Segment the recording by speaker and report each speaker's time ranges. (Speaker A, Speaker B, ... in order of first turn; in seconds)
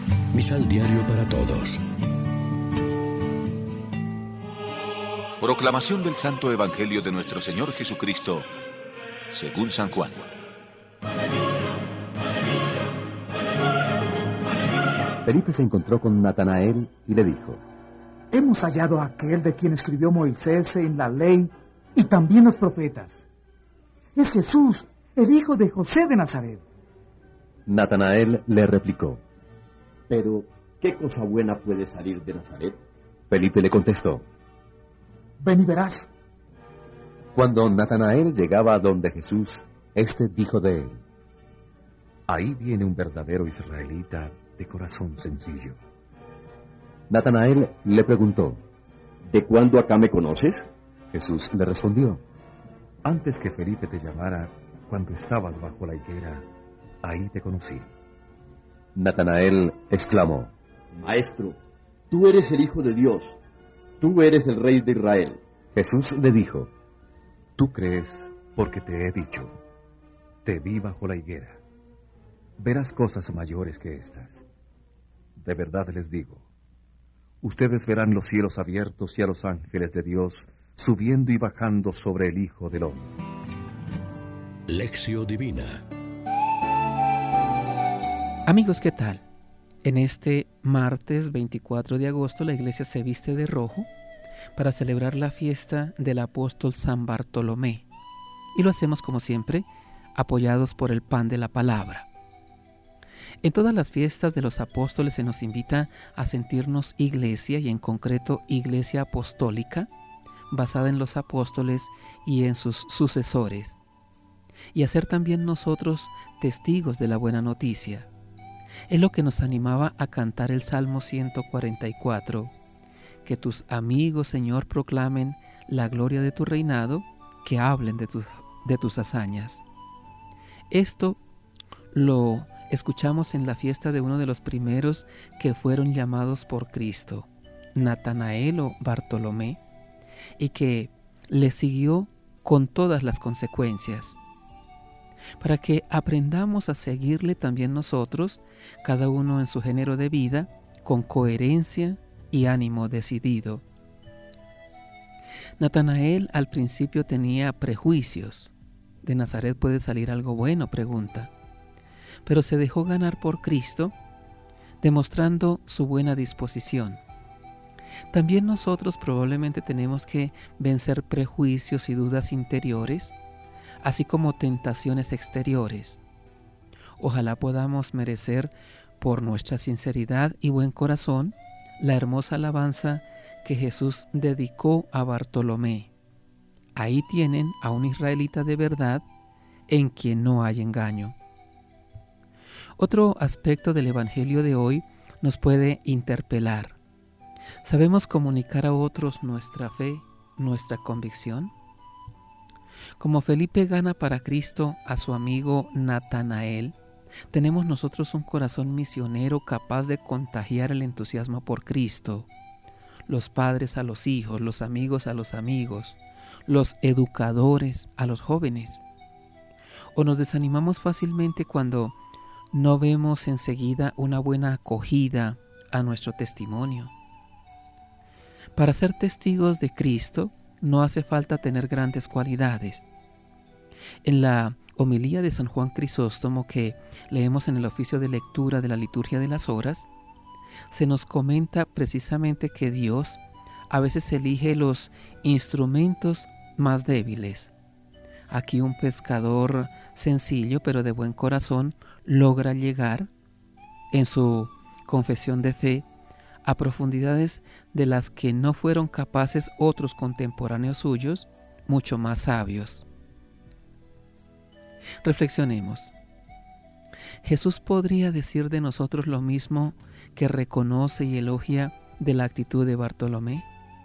Speaker A: 0.3-1.8, 84.7-85.8
Speaker B: 5.4-8.5, 9.3-10.3
Speaker C: 15.2-17.6, 27.7-29.2, 33.3-34.2, 37.3-41.0, 42.3-45.8, 47.1-48.6, 51.1-52.2, 53.0-56.4, 57.0-57.9, 59.0-60.5, 65.7-66.7, 67.6-69.5, 70.4-71.6, 72.6-74.5, 75.4-76.5, 77.4-83.1
Speaker D: 18.3-23.2, 24.1-26.6, 35.4-36.1
Speaker E: 30.1-32.8, 49.3-50.7, 60.9-61.6, 62.1-63.4, 64.0-65.4
Speaker F: 88.5-89.2, 89.8-93.9, 94.5-97.9, 98.5-102.1, 103.4-109.9, 110.5-113.8, 114.7-118.1, 118.9-122.5, 123.2-129.6, 130.7-131.2, 131.9-139.6, 140.4-144.2, 145.4-153.6, 155.6-161.3, 162.2-163.9, 164.8-167.0, 168.1-173.1, 173.8-176.0, 177.0-185.9, 186.7-189.0, 189.7-191.2, 192.8-196.8, 197.6-201.5, 203.0-206.8, 207.3-212.3, 213.1-218.8, 219.9-221.9, 222.5-226.9, 228.6-232.8, 234.0-239.9, 240.7-247.5, 248.3-253.1, 253.9-255.9, 256.4-262.8, 265.0-265.9, 267.2-273.5